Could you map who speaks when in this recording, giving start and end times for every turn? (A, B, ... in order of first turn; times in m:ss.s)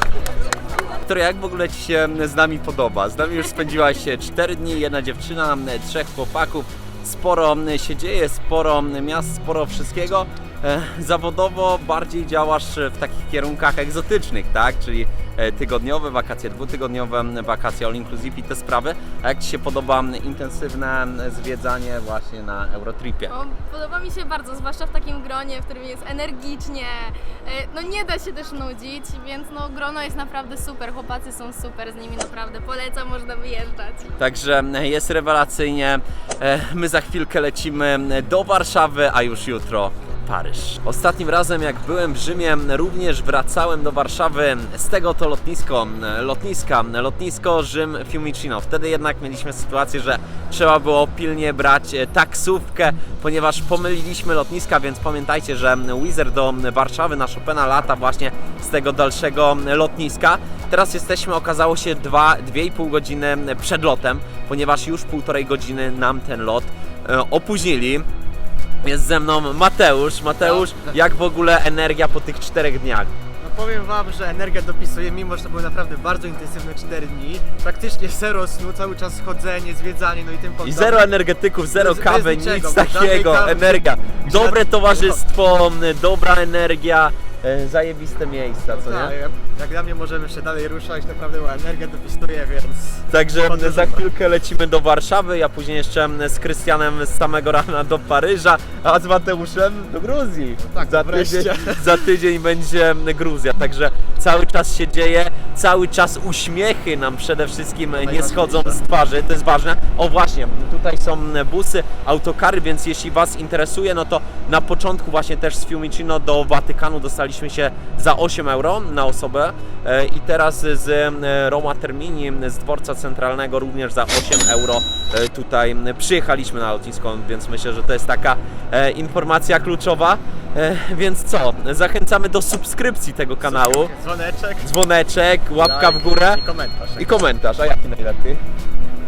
0:01.0-0:23.4 A
0:23.3-0:34.1 B
0:34.2-1:08.1 A
1:08.8-1:13.1 A
1:10.4-1:10.8 C
1:13.4-1:21.1 C
1:20.6-1:29.1 A
1:21.7-1:25.2 C
1:28.7-1:34.0 C
1:33.1-2:13.9 A
1:40.7-1:42.0 C
1:48.0-1:48.8 C
2:13.4-2:14.7 C
2:14.6-2:16.4 A
2:15.6-2:17.1 C
2:17.0-2:18.4 A